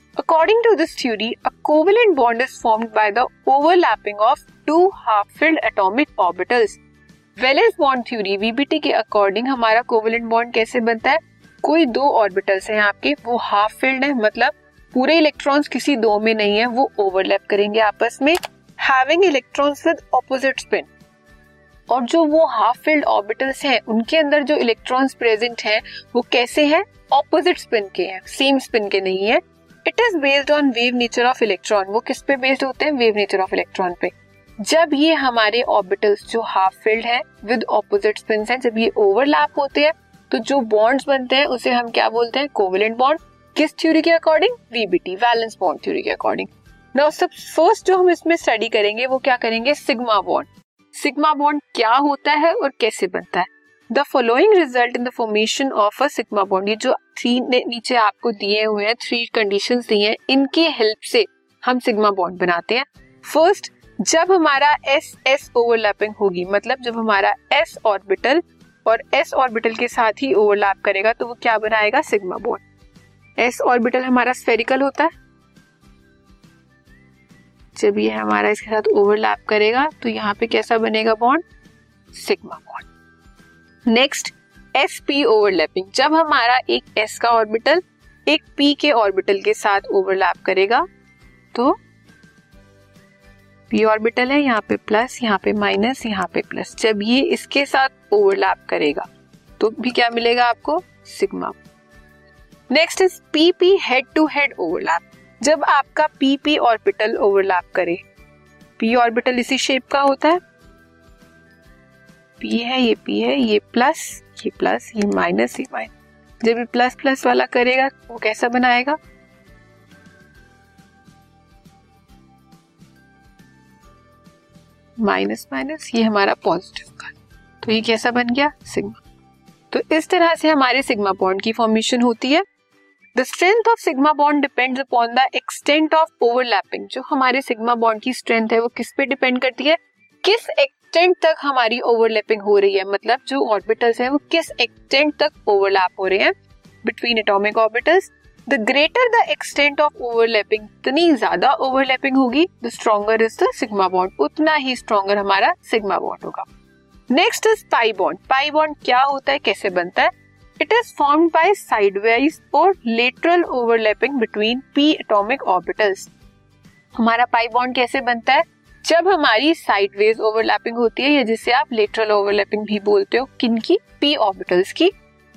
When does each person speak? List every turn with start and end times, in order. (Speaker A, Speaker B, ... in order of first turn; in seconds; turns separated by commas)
Speaker A: 0.2-6.8, Speaker A: 7.4-20.9, Speaker A: 21.9-72.6, Speaker A: 73.4-75.1, Speaker A: 77.8-81.4, Speaker A: 82.1-82.9, Speaker A: 83.9-90.8, Speaker A: 93.7-99.1, Speaker A: 99.6-101.6, Speaker A: 102.7-108.0, Speaker A: 108.8-110.4, Speaker A: 112.4-119.0, Speaker A: 125.0-129.0, Speaker A: 129.7-132.4, Speaker A: 133.1-156.5, Speaker A: 157.1-166.1, Speaker A: 166.9-174.9